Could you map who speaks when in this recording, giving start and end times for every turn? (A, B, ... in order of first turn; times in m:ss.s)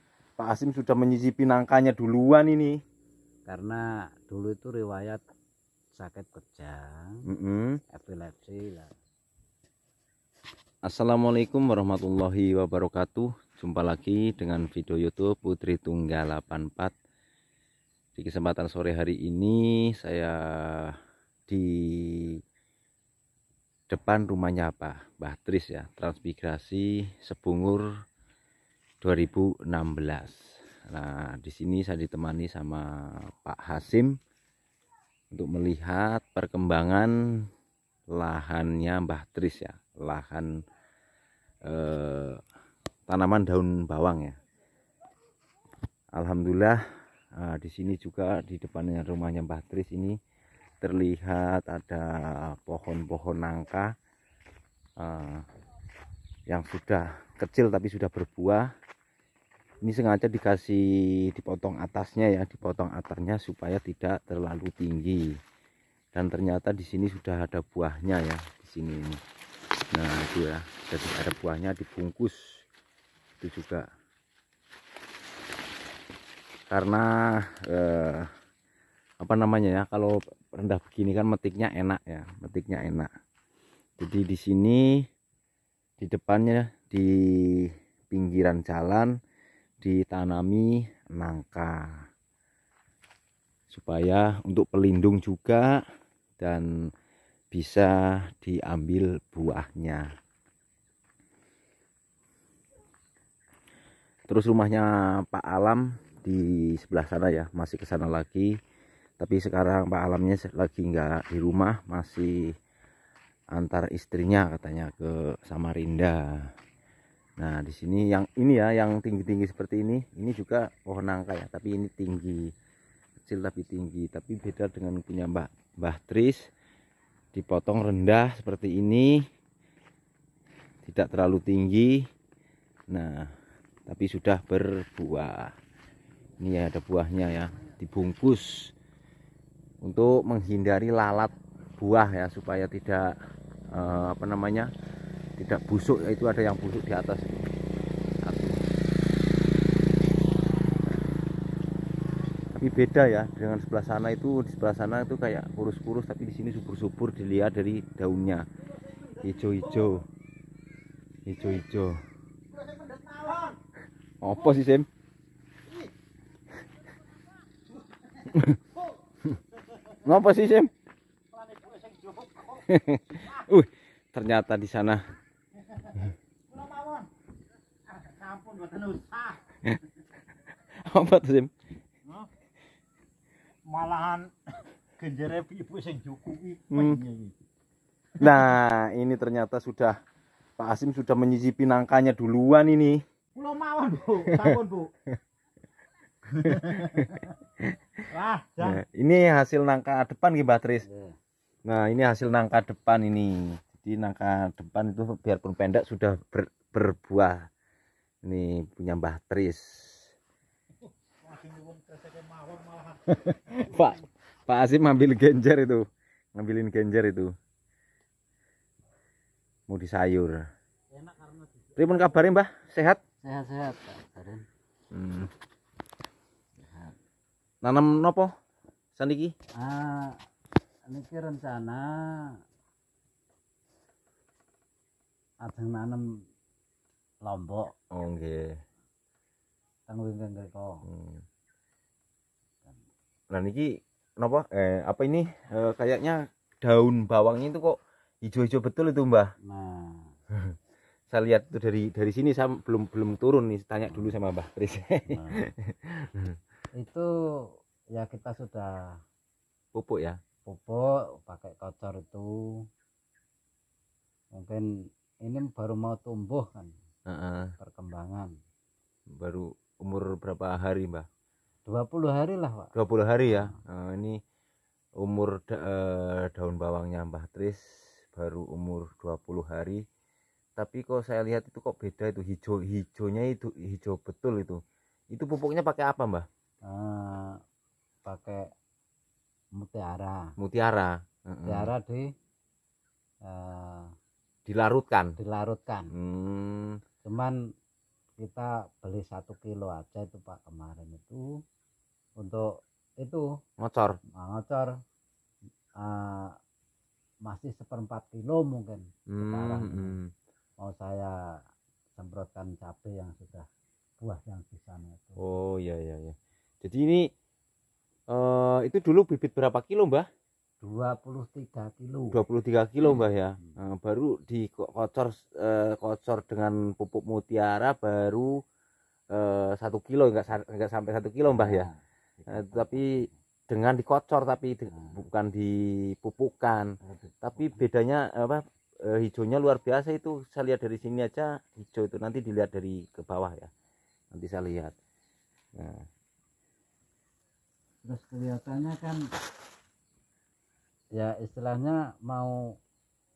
0:00.4-0:02.8 A
0:03.5-0:05.2 B
0:06.0-0:07.2 B
0:07.2-0:07.8 A
0:07.9-0:08.9 B
0:10.8-0:16.9 A
0:18.2-0:21.0 A
0:21.5-0:22.4 A
0:23.9-0:27.9 A
0:29.0-0:34.2 A
0:35.3-0:37.5 A
0:38.1-0:40.5 A
0:41.6-0:42.4 A
0:43.1-0:44.4 A
0:46.2-0:46.8 A
0:47.4-0:50.2 A
0:50.8-0:53.9 A
0:55.0-0:55.4 A
0:56.5-0:58.7 A
0:59.8-1:05.4 A
1:06.1-1:09.2 A
1:09.9-1:12.6 A
1:13.4-1:13.9 A
1:16.7-1:18.3 A
1:19.2-1:23.1 A
1:24.0-1:25.1 A
1:26.0-1:29.1 A
1:29.8-1:32.0 A
1:33.7-1:35.8 A
1:36.4-1:36.9 A
1:37.5-1:40.1 A
1:44.3-1:48.6 A
1:49.2-1:52.6 A
1:53.5-1:56.5 A
1:57.4-2:02.5 A
2:03.3-2:06.5 A
2:07.3-2:09.3 A
2:10.8-2:12.1 A
2:12.9-2:13.3 A
2:13.9-2:15.5 A
2:16.4-2:18.7 A
2:19.8-2:23.2 A
2:23.7-2:24.7 A
2:25.4-2:27.6 A
2:28.2-2:28.6 A
2:32.6-2:38.5 A
2:39.1-2:40.1 A
2:41.2-2:42.0 A
2:42.5-2:43.6 C
2:44.2-2:44.9 A
2:48.3-2:48.6 A
2:50.0-2:50.7 A
2:51.3-2:53.4 C
2:52.6-2:55.1 A
2:55.7-2:56.0 C
2:56.5-2:57.1 C
2:57.9-2:59.5 C
3:00.8-3:01.5 A
3:03.6-3:07.4 C
3:06.7-3:07.0 A
3:08.2-3:10.0 A
3:10.6-3:13.0 A
3:13.3-3:14.9 C
3:14.3-3:14.6 A
3:16.3-3:17.2 C
3:16.4-3:17.8 A
3:18.1-3:18.8 C
3:18.6-3:20.9 A
3:20.8-3:21.2 B
3:21.6-3:27.5 A
3:28.2-3:30.1 A
3:31.2-3:33.9 C
3:33.1-3:37.3 A
3:39.7-3:40.5 A
3:41.1-3:41.4 C
3:41.8-3:43.0 A
3:43.2-3:44.5 B
3:44.9-3:45.3 A
3:46.7-3:46.9 B
3:47.6-3:48.3 A
3:49.0-3:49.3 A
3:49.6-3:50.2 B
3:50.9-3:52.4 B
3:55.4-3:56.0 B
3:57.2-3:57.7 B
3:57.9-3:58.6 A
3:59.9-4:00.8 B
4:00.8-4:01.2 A
4:03.3-4:09.3 A
4:09.4-4:10.2 B
4:11.1-4:16.3 A
4:15.1-4:15.4 B
4:16.8-4:19.0 B
4:19.7-4:20.2 A
4:20.4-4:22.6 B
4:24.3-4:26.7 B
4:27.1-4:27.5 A
4:27.6-4:28.3 B
4:29.2-4:31.1 A
4:31.6-4:32.7 B
4:32.7-4:34.2 A
4:33.3-4:33.5 B
4:35.0-4:39.8 A
4:40.6-4:46.3 A
4:46.6-4:47.4 B
4:48.0-4:48.5 B
4:49.5-4:50.3 B
4:50.4-4:51.7 A
4:51.4-4:52.1 B
4:53.2-4:53.9 B
4:54.4-4:55.2 A
4:55.2-4:55.9 B
4:55.9-4:56.8 A
4:57.0-4:57.4 B
4:58.2-5:01.4 B
5:02.2-5:03.3 B
5:03.6-5:04.0 A
5:04.1-5:04.8 B
5:05.8-5:06.4 B
5:07.2-5:10.0 B
5:09.1-5:10.1 A
5:10.6-5:11.4 B
5:12.0-5:13.5 B
5:14.0-5:15.2 B
5:15.2-5:17.1 A
5:18.1-5:20.1 A
5:20.6-5:22.2 B
5:22.1-5:28.4 A
5:29.1-5:31.7 A
5:31.3-5:33.1 B
5:32.3-5:43.5 A
5:36.8-5:37.6 B
5:44.1-5:44.7 A
5:45.6-5:45.8 A
5:47.8-5:49.0 B
5:50.9-5:52.6 B